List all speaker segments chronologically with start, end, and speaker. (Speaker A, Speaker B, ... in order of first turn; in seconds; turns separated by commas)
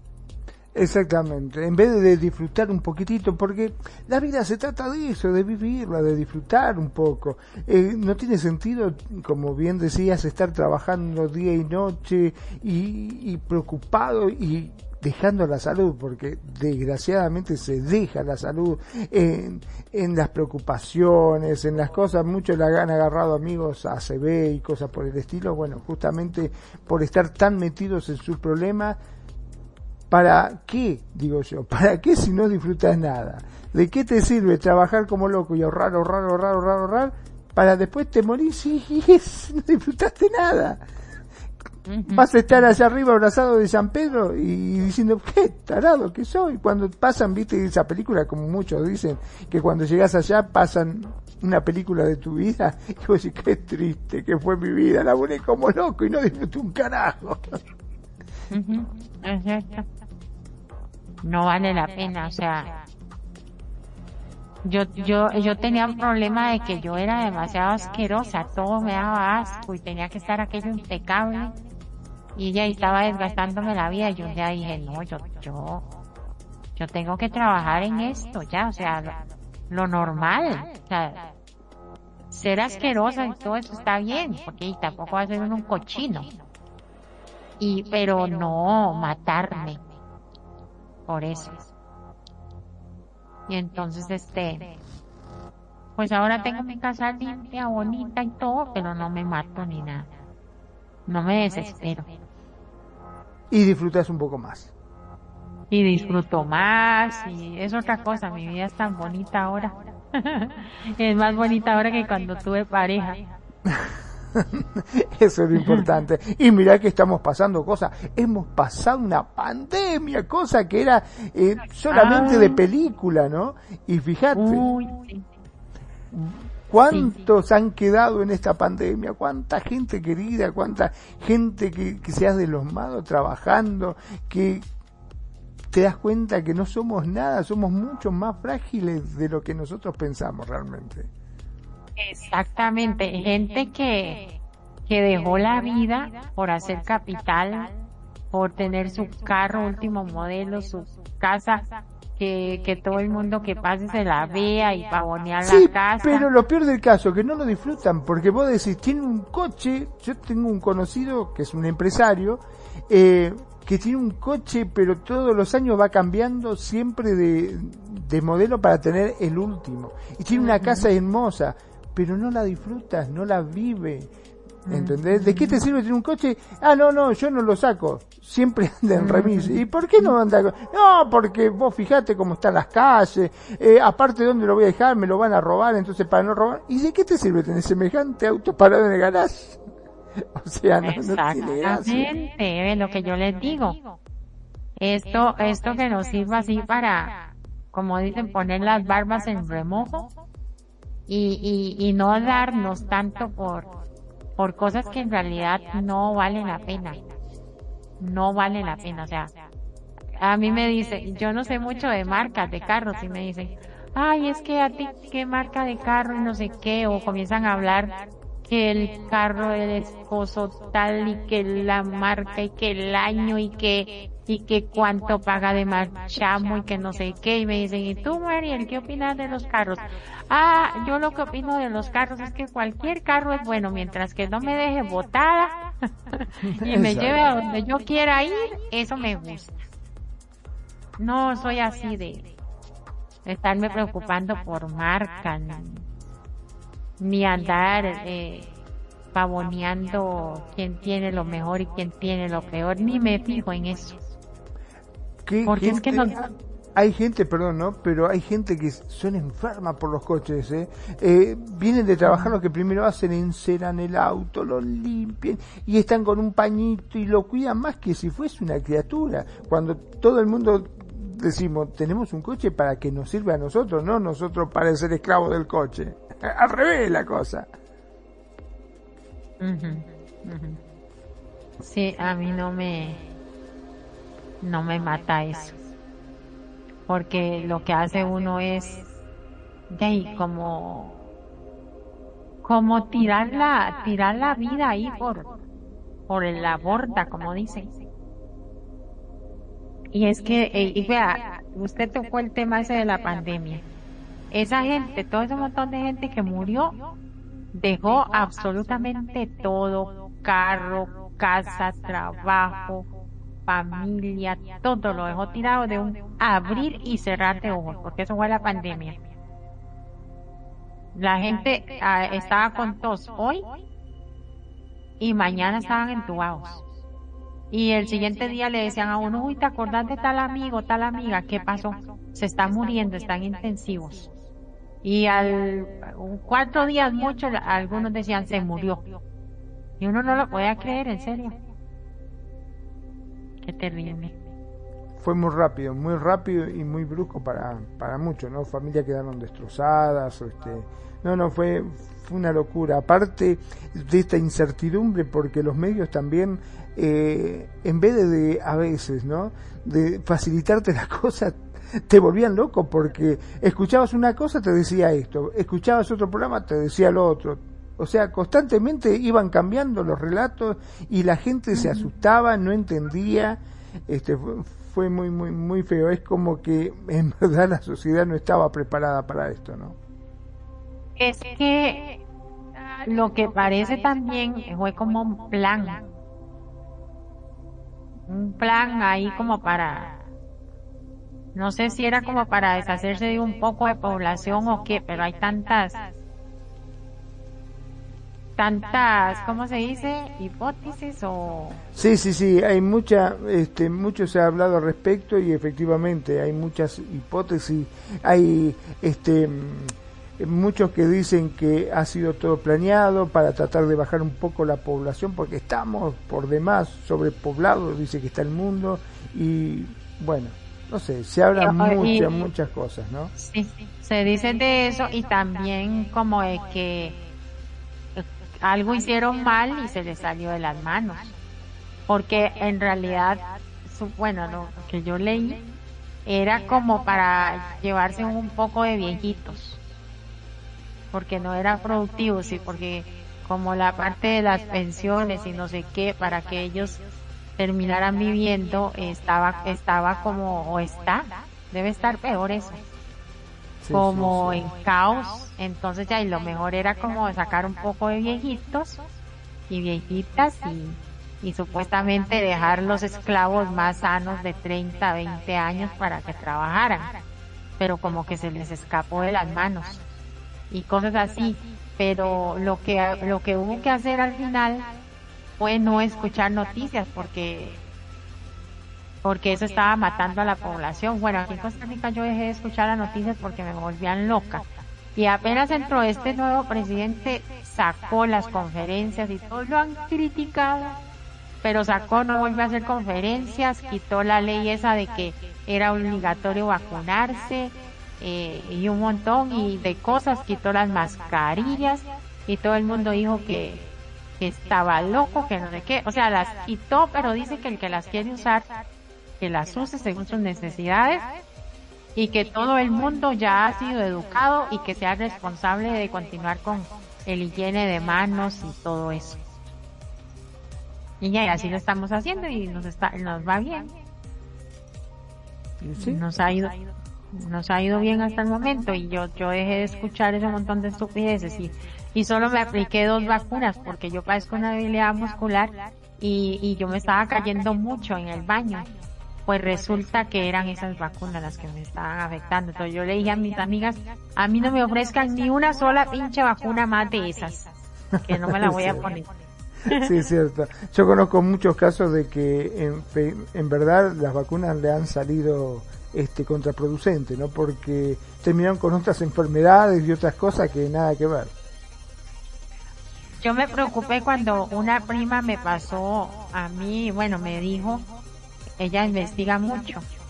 Speaker A: 0.7-29.0, Speaker A: 30.1-40.8, Speaker B: 41.9-42.6, Speaker A: 42.1-57.6, Speaker B: 58.5-59.9, Speaker B: 61.2-62.8, Speaker B: 64.6-71.6, Speaker B: 72.4-75.8, Speaker B: 76.8-79.2, Speaker B: 79.7-81.3, Speaker B: 82.3-86.3, Speaker B: 87.6-89.8, Speaker B: 91.1-91.7, Speaker B: 93.5-94.7, Speaker B: 96.0-100.1, Speaker B: 101.1-102.1, Speaker A: 103.5-104.7, Speaker B: 105.7-113.2, Speaker A: 113.7-124.7, Speaker B: 115.6-115.9, Speaker B: 121.9-122.6, Speaker B: 124.3-125.3, Speaker A: 126.1-134.7, Speaker B: 126.9-127.2, Speaker A: 135.7-141.1, Speaker B: 142.0-147.7, Speaker B: 148.3-156.3, Speaker A: 155.4-174.1, Speaker B: 170.3-170.9, Speaker B: 174.7-175.6, Speaker A: 174.7-189.6, Speaker B: 179.0-180.1, Speaker A: 190.3-192.1, Speaker B: 190.8-193.8, Speaker B: 194.8-200.1, Speaker B: 201.1-203.7, Speaker B: 204.4-207.0, Speaker B: 208.0-209.3, Speaker B: 210.2-239.7, Speaker A: 236.4-237.3, Speaker B: 241.0-242.3, Speaker B: 243.2-245.8, Speaker B: 247.0-248.5, Speaker B: 249.1-254.0, Speaker A: 255.3-277.5, Speaker B: 255.4-256.2, Speaker B: 262.1-262.4, Speaker B: 279.4-280.6, Speaker B: 281.6-283.0, Speaker B: 284.4-285.6, Speaker B: 286.9-288.9, Speaker B: 289.7-291.0, Speaker B: 292.4-295.3, Speaker B: 296.1-297.8, Speaker B: 299.9-303.6, Speaker B: 304.3-306.8, Speaker B: 307.5-312.9, Speaker B: 313.5-319.0, Speaker B: 320.9-323.5, Speaker B: 325.0-326.6, Speaker B: 327.5-334.1, Speaker B: 334.8-338.9, Speaker B: 339.8-341.4, Speaker B: 343.4-344.1, Speaker A: 345.0-379.8, Speaker B: 371.5-371.9, Speaker B: 381.0-382.0, Speaker B: 382.8-385.8, Speaker B: 388.1-390.0, Speaker B: 391.4-395.9, Speaker B: 398.4-401.6, Speaker A: 401.7-423.1, Speaker B: 421.4-422.2, Speaker B: 423.2-427.0, Speaker B: 427.9-431.1, Speaker B: 431.9-435.4, Speaker B: 436.1-439.6, Speaker B: 440.9-446.8, Speaker B: 447.4-452.6, Speaker A: 453.6-454.4, Speaker B: 453.7-458.8, Speaker B: 459.5-467.0, Speaker B: 467.6-469.8, Speaker B: 470.5-474.7, Speaker B: 475.4-477.6, Speaker B: 479.0-490.8, Speaker B: 491.4-508.5, Speaker B: 509.2-511.1, Speaker B: 512.0-519.2, Speaker B: 521.0-523.7, Speaker A: 525.6-526.0, Speaker B: 525.8-526.6, Speaker B: 527.1-538.7, Speaker B: 539.3-549.1, Speaker A: 548.0-548.9, Speaker A: 549.7-561.3, Speaker B: 563.2-567.9, Speaker B: 568.6-569.9